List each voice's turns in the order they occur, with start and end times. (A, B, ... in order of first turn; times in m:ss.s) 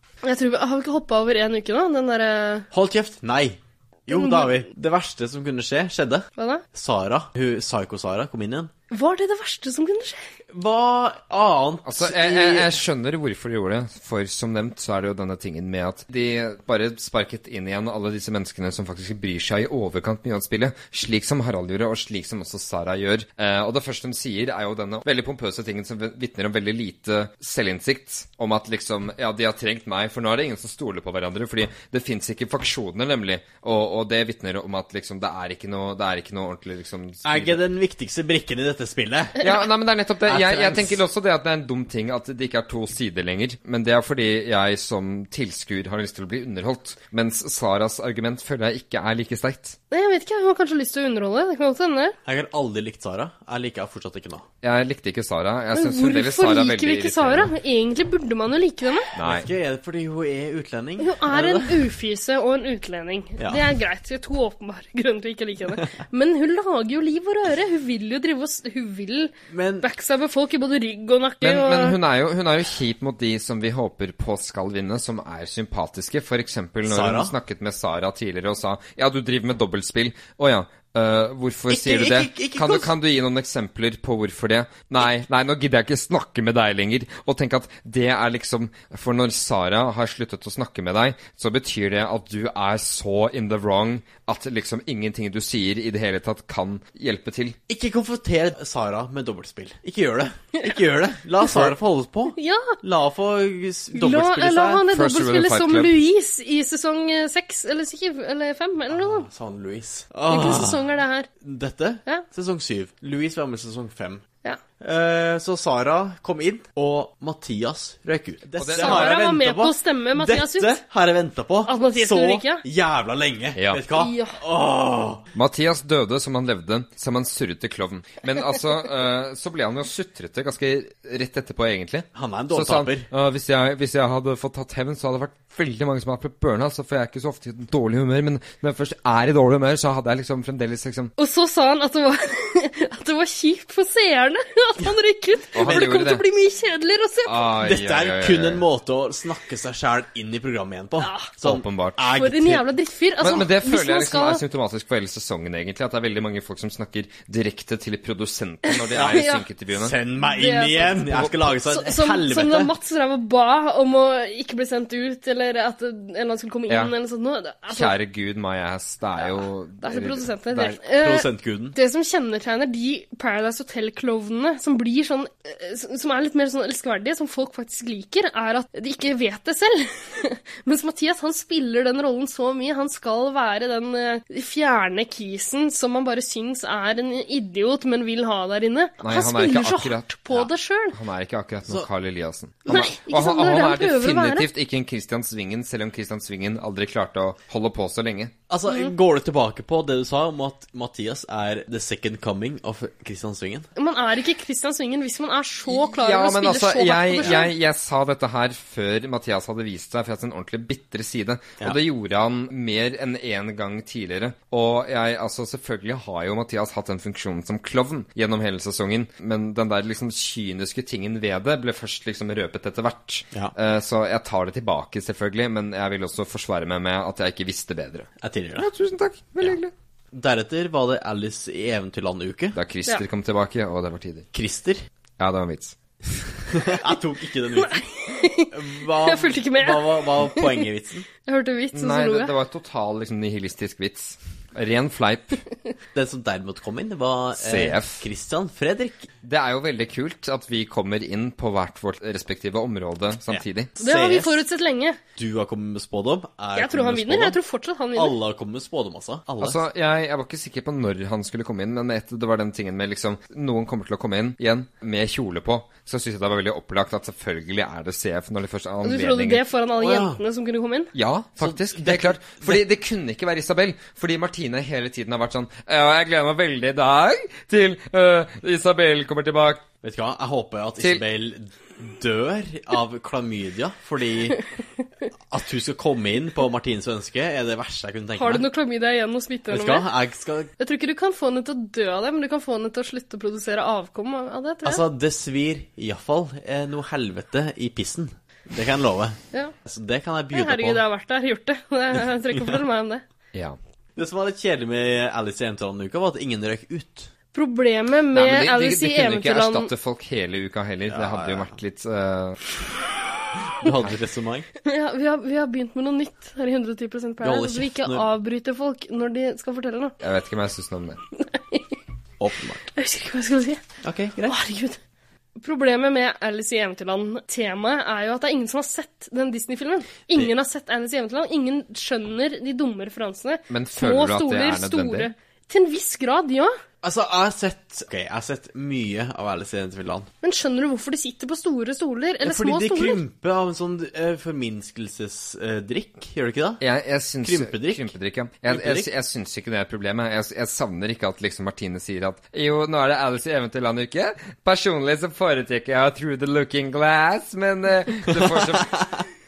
0:00.2-0:02.7 A
0:02.7-0:08.7 B
0:04.1-0:04.6 A
0:06.4-0:06.6 A
0:08.9-0:10.2 A
0:10.5-0:12.8 B
0:11.8-0:37.6 C
0:37.2-0:39.5 B
0:39.4-0:49.8 C
0:40.3-0:41.0 B
0:49.9-0:52.2 A
0:52.2-0:54.5 B
0:54.6-0:57.5 C
0:55.7-0:59.1 A
0:59.2-0:59.5 C
0:59.2-1:01.9 B
1:01.0-1:12.0 A
1:03.4-1:03.6 B
1:09.5-1:09.9 B
1:11.4-1:37.6 C
1:16.9-1:17.3 B
1:21.7-1:22.9 B
1:37.7-1:44.8 B
1:42.3-1:42.8 A
1:43.9-1:49.3 A
1:44.9-1:45.9 C
1:48.9-1:54.2 B
1:50.3-1:51.3 A
1:54.8-2:05.2 B
1:58.6-1:59.2 C
1:58.8-2:00.8 A
2:01.7-2:02.6 A
2:03.6-2:03.8 C
2:03.9-2:04.4 A
2:05.3-2:21.1 C
2:12.1-2:13.1 B
2:21.2-2:27.5 A
2:25.5-2:26.2 C
2:27.2-2:28.6 C
2:27.6-2:32.7 B
2:31.0-2:31.3 A
2:31.4-2:32.0 C
2:32.0-2:34.4 A
2:33.2-2:40.0 C
2:38.7-2:39.4 A
2:38.9-2:42.7 B
2:40.3-2:47.9 A
2:41.0-2:41.5 C
2:46.7-2:46.9 C
2:47.7-2:50.6 C
2:49.8-3:11.0 A
2:50.5-2:51.8 B
3:09.0-3:18.3 C
3:12.7-3:14.5 A
3:18.5-3:23.7 B
3:23.8-3:27.5 A
3:25.7-3:49.7 C
3:48.2-3:48.7 B
3:50.1-3:52.6 B
3:52.5-3:54.3 C
3:54.3-3:54.8 B
3:55.2-3:55.8 C
3:56.5-4:01.1 B
3:57.6-4:00.6 A
4:01.2-4:02.3 A
4:01.7-4:05.4 C
4:05.9-4:09.1 B
4:07.4-4:08.0 C
4:09.2-4:13.7 C
4:13.3-4:14.4 B
4:13.8-4:15.0 A
4:15.2-4:17.4 B
4:16.6-4:18.2 A
4:18.0-4:19.6 B
4:19.4-4:29.4 C
4:28.8-4:30.9 A
4:29.8-4:30.2 B
4:30.9-4:39.7 C
4:31.4-4:32.6 B
4:39.8-4:44.4 B
4:40.8-4:41.0 C
4:45.3-4:48.5 B
4:48.2-4:49.9 A
4:49.5-4:50.5 B
4:50.6-4:54.8 A
4:54.6-5:00.8 B
5:00.3-5:03.0 A
5:02.3-5:02.6 B
5:04.0-5:07.1 B
5:07.3-5:09.7 A
5:08.1-5:12.4 C
5:10.9-5:11.6 B
5:13.5-5:14.5 B
5:14.6-5:20.0 A
5:17.2-5:18.1 B
5:20.0-5:21.0 C
5:21.3-5:21.6 A
5:22.2-5:22.7 B
5:22.8-5:23.6 A
5:23.8-5:24.4 B
5:24.3-5:24.8 A
5:25.4-5:36.6 A
5:33.5-5:35.1 C
5:36.8-5:40.1 B
5:40.2-5:43.0 A
5:42.2-5:46.6 B
5:46.6-5:58.8 C
5:47.2-5:47.9 B
5:48.5-5:48.9 B
5:58.1-5:59.0 B